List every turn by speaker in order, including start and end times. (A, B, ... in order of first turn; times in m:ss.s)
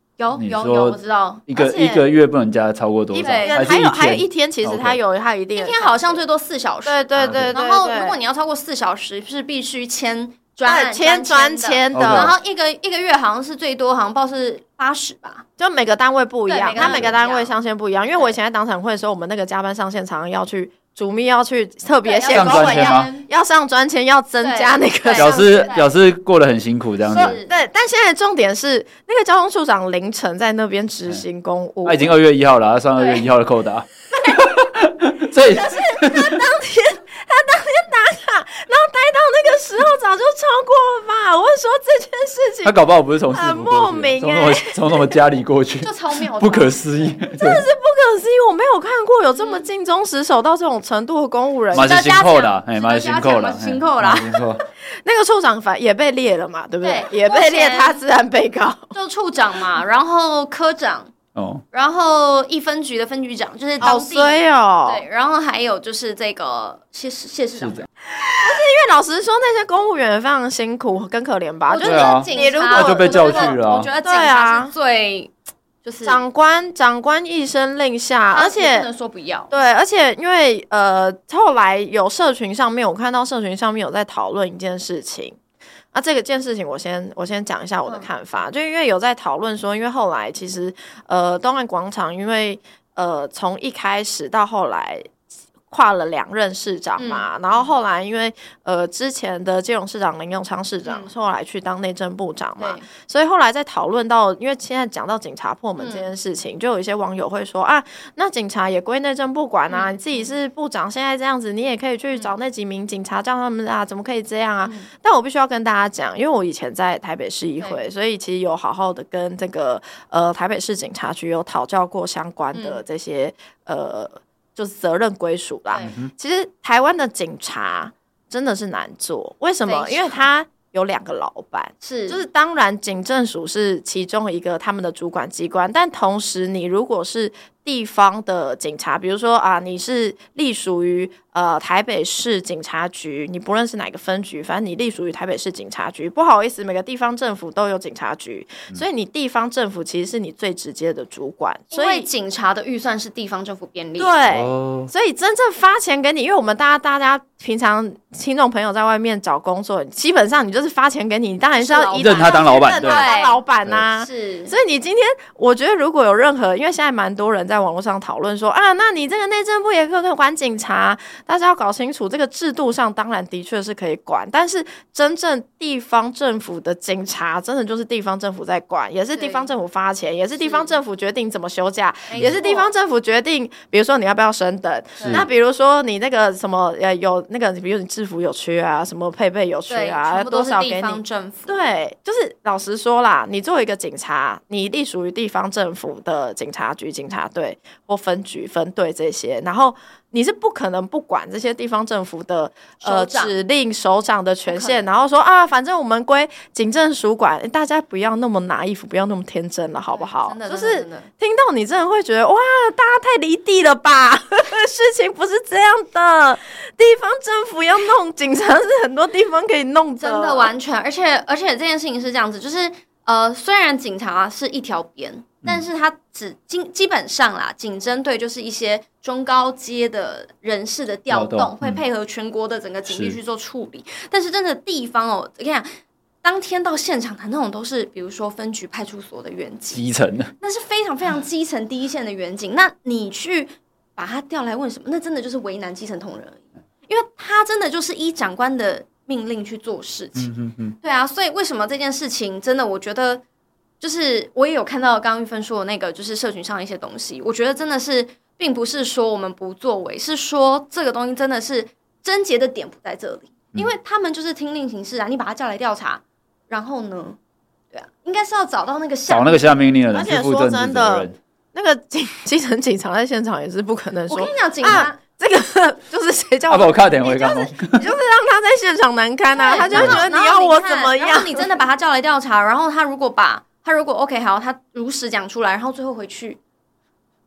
0:00.2-0:01.4 A
0:00.3-0:05.0 B
0:01.5-0:02.1 C
0:03.1-0:06.2 C
0:03.2-0:03.6 A
0:05.6-0:15.4 A
0:06.8-0:08.2 C
0:07.2-0:07.6 B
0:10.6-0:12.3 C
0:11.9-0:12.3 B
0:15.6-0:25.7 C
0:16.5-0:17.5 A
0:16.8-0:17.1 B
0:22.0-0:23.3 A
0:22.3-0:23.1 B
0:24.4-0:25.9 A
0:25.2-0:27.4 B
0:27.1-0:27.5 A
0:27.1-0:32.1 C
0:31.8-0:36.5 B
0:33.0-0:33.2 A
0:35.3-0:42.8 C
0:42.6-0:47.6 B
0:43.3-0:45.2 C
0:45.8-0:47.1 A
0:47.4-0:51.9 C
0:49.4-0:49.6 A
0:51.7-0:54.4 A
0:51.7-0:54.6 B
0:55.0-0:58.9 C
0:56.8-0:58.0 A
0:58.9-1:01.1 A
1:01.4-1:01.6 B
1:01.7-1:07.9 A
1:03.8-1:05.0 C
1:07.6-1:07.9 B
1:08.3-1:14.7 C
1:11.7-1:15.3 A
1:11.8-1:13.9 B
1:15.8-1:16.2 A
1:16.0-1:18.9 C
1:18.3-1:19.5 A
1:19.5-1:25.4 C
1:25.9-1:35.1 C
1:35.7-2:32.1 C
1:37.0-1:37.7 A
1:40.8-1:41.1 A
1:42.6-1:42.8 A
1:45.8-1:46.1 A
1:49.7-1:50.3 A
2:02.5-2:02.8 A
2:09.6-2:10.2 A
2:11.8-2:12.2 A
2:31.7-2:34.2 A
2:34.0-3:40.5 C
2:34.3-2:34.9 B
2:41.6-2:44.6 A
2:42.0-2:43.1 B
2:59.2-2:59.5 A
3:00.4-3:00.8 A
3:02.1-3:02.7 A
3:05.0-3:05.3 A
3:09.7-3:11.6 A
3:22.8-3:23.4 A
3:24.5-3:24.8 A
3:29.9-3:31.1 A
3:40.0-3:59.8 A
3:51.1-3:51.8 B
3:52.9-3:53.2 B
3:59.7-4:00.3 B
4:00.4-4:13.2 A
4:10.2-4:10.8 B
4:13.8-4:27.2 A
4:27.7-4:29.5 A
4:29.1-4:31.2 B
4:29.9-4:41.6 C
4:34.1-4:35.0 A
4:36.5-4:37.9 B
4:39.3-4:46.4 A
4:39.7-4:40.0 B